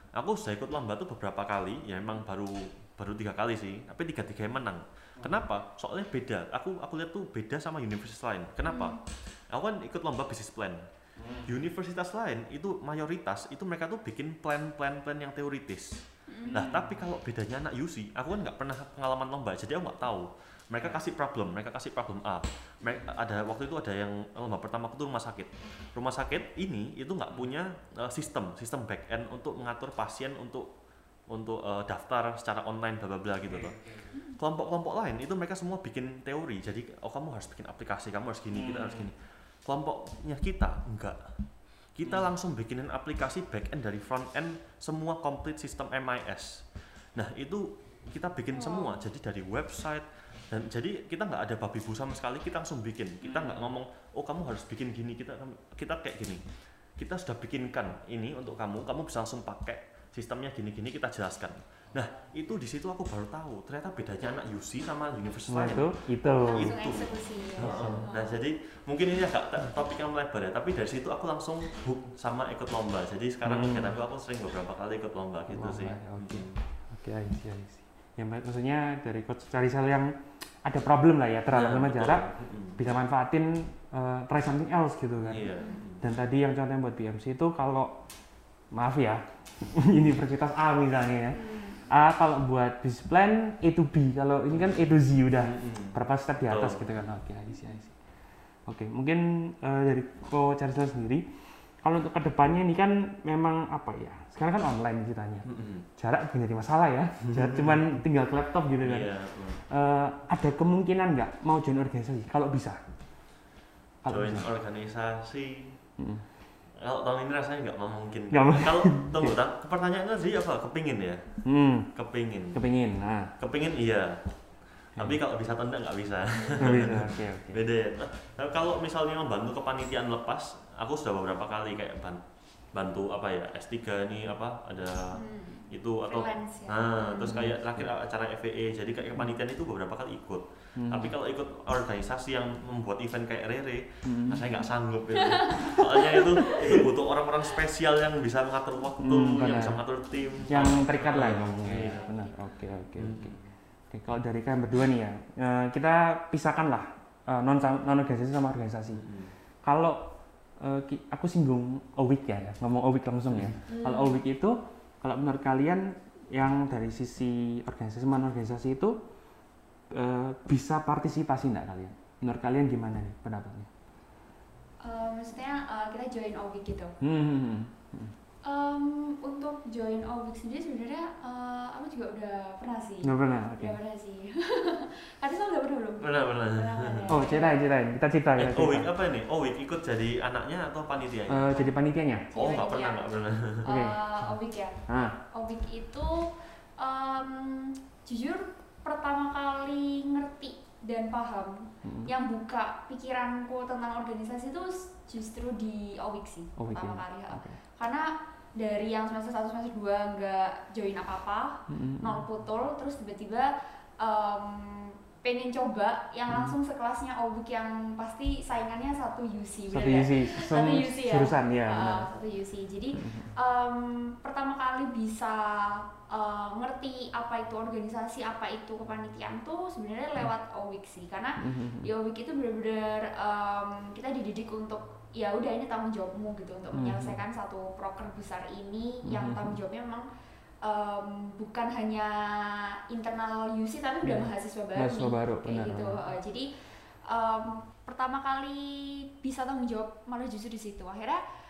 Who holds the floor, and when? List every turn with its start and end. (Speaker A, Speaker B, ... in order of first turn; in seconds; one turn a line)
Speaker A: 0.1-10.8
Speaker B: 5.2-5.4
Speaker C: 8.7-9.0
Speaker B: 11.2-11.5
Speaker A: 11.4-30.7
Speaker C: 16.3-16.6
Speaker B: 16.5-17.0
Speaker A: 31.3-33.8
Speaker B: 33.5-34.1
Speaker C: 34.1-34.4
Speaker A: 34.3-41.3
Speaker B: 38.5-39.1
Speaker A: 41.9-56.4
Speaker C: 48.5-49.0
Speaker B: 53.2-53.7
Speaker A: 57.0-66.0
Speaker B: 65.5-66.7
Speaker C: 66.5-68.4
Speaker A: 66.5-76.6
Speaker B: 67.6-68.0
Speaker B: 73.4-73.9
Speaker B: 75.5-88.0
Speaker A: 81.5-82.8
Speaker A: 85.2-86.0
Speaker C: 85.5-85.8
Speaker B: 88.7-98.0
Speaker C: 91.3-91.8
Speaker A: 95.3-96.8
Speaker B: 98.7-101.2
Speaker B: 101.8-112.8
Speaker A: 105.4-105.8
Speaker A: 107.3-107.8
Speaker A: 108.8-109.6
Speaker B: 114.0-114.5
Speaker A: 114.1-115.8
Speaker B: 116.0-116.2
Speaker A: 116.7-122.6
Speaker B: 118.3-119.4
Speaker B: 121.5-121.9
Speaker B: 122.5-123.3
Speaker A: 123.4-152.0
Speaker B: 126.6-127.6
Speaker C: 135.1-137.5
Speaker B: 137.2-137.8
Speaker B: 140.8-141.1
Speaker B: 144.0-144.5
Speaker C: 145.2-146.8
Speaker B: 149.0-149.8
Speaker B: 150.5-153.4
Speaker C: 151.7-152.6
Speaker A: 153.0-153.5
Speaker B: 153.9-159.1
Speaker A: 159.0-159.3
Speaker B: 159.6-169.0
Speaker C: 163.7-164.2
Speaker B: 169.9-173.7
Speaker C: 174.8-176.9
Speaker B: 177.0-178.1
Speaker C: 178.4-187.7
Speaker B: 183.0-183.8
Speaker A: 186.0-187.1
Speaker B: 187.1-188.9
Speaker A: 188.4-191.7
Speaker B: 191.3-192.2
Speaker C: 192.3-193.1
Speaker A: 192.3-193.7
Speaker C: 193.6-194.8
Speaker B: 193.6-194.0
Speaker B: 194.9-195.1
Speaker C: 195.3-240.1
Speaker B: 201.8-202.1
Speaker B: 206.6-207.6
Speaker B: 211.7-212.2
Speaker B: 216.3-216.6
Speaker B: 219.7-222.1
Speaker B: 223.0-223.3
Speaker B: 231.4-231.9
Speaker B: 236.7-237.2
Speaker B: 239.0-239.6
Speaker C: 240.6-246.5
Speaker B: 244.0-246.0
Speaker C: 247.1-251.2